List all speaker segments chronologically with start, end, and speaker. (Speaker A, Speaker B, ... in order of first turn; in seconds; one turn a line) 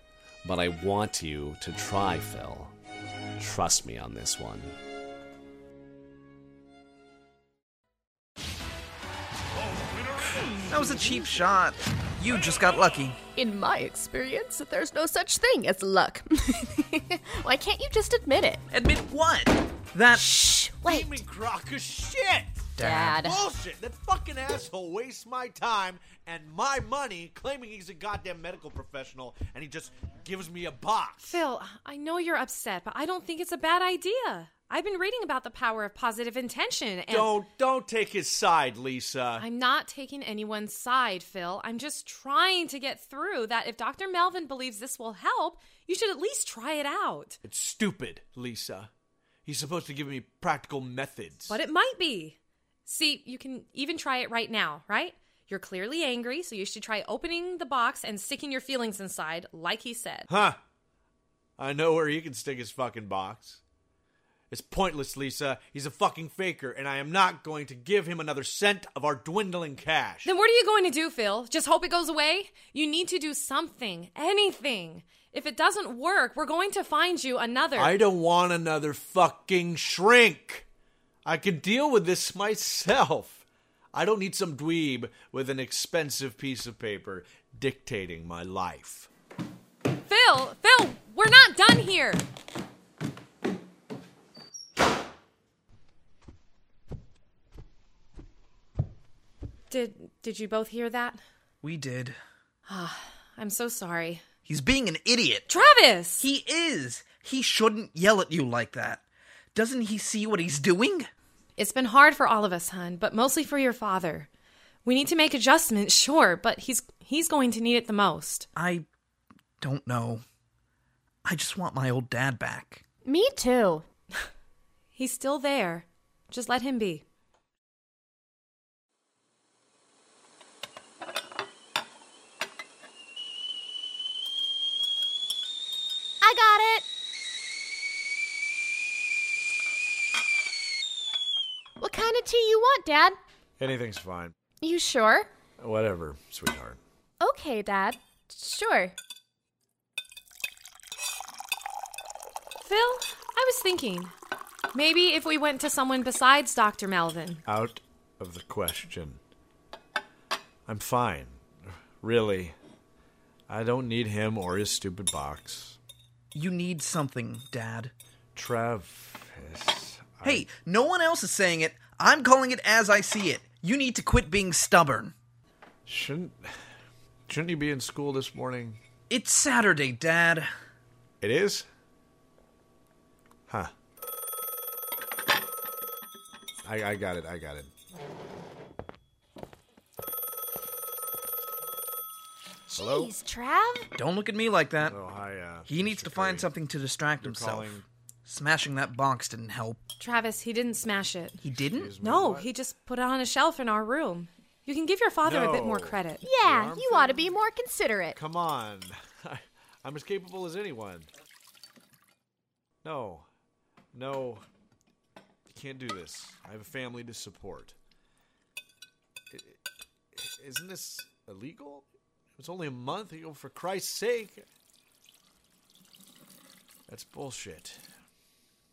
Speaker A: 0.4-2.7
Speaker A: 3.4-4.7
Speaker B: 10.7-13.2
Speaker C: 13.4-18.6
Speaker B: 18.7-20.2
Speaker C: 20.1-21.2
Speaker D: 20.8-31.4
Speaker B: 22.8-23.2
Speaker C: 22.8-23.4
Speaker E: 31.2-37.4
Speaker D: 37.1-39.5
Speaker E: 39.4-47.4
Speaker D: 47.4-48.9
Speaker D: 49.5-51.6
Speaker E: 51.5-60.3
Speaker D: 60.3-60.6
Speaker D: 61.6-63.6
Speaker D: 64.5-70.3
Speaker E: 70.2-78.0
Speaker D: 77.8-80.7
Speaker D: 81.2-89.1
Speaker E: 90.1-92.2
Speaker E: 99.7-101.2
Speaker B: 101.6-102.2
Speaker E: 102.7-104.2
Speaker B: 104.5-105.5
Speaker E: 105.5-106.3
Speaker B: 106.2-111.1
Speaker E: 111.6-114.3
Speaker E: 114.8-118.5
Speaker B: 118.6-118.9
Speaker B: 119.6-120.2
Speaker B: 121.2-122.8
Speaker C: 123.0-123.8
Speaker E: 125.0-127.0
Speaker C: 136.2-136.9
Speaker C: 141.8-143.2
Speaker D: 143.6-144.3
Speaker C: 144.6-145.3
Speaker D: 145.6-146.8
Speaker C: 147.2-149.0
Speaker E: 152.6-154.1
Speaker E: 154.7-157.4
Speaker D: 157.5-159.2
Speaker D: 160.7-161.4
Speaker D: 162.0-162.6
Speaker D: 163.5-165.8
Speaker B: 166.3-167.9
Speaker D: 168.3-170.4
Speaker B: 170.2-175.2
Speaker D: 175.9-176.7
Speaker D: 177.3-178.8
Speaker B: 179.1-180.5
Speaker D: 181.2-181.7
Speaker D: 186.6-187.7
Speaker D: 192.7-193.1
Speaker C: 192.7-193.9
Speaker B: 194.0-195.0
Speaker D: 194.9-196.5
Speaker B: 195.7-199.8
Speaker D: 197.2-197.9
Speaker E: 200.0-201.4
Speaker B: 201.4-201.9
Speaker D: 201.8-202.5
Speaker E: 202.0-206.2
Speaker D: 205.2-207.3
Speaker C: 206.2-208.2
Speaker D: 208.2-211.1
Speaker D: 212.8-213.3
Speaker D: 213.9-214.5
Speaker D: 215.5-217.8
Speaker D: 219.3-219.6
Speaker D: 220.1-221.8
Speaker D: 222.4-224.4
Speaker D: 226.9-227.9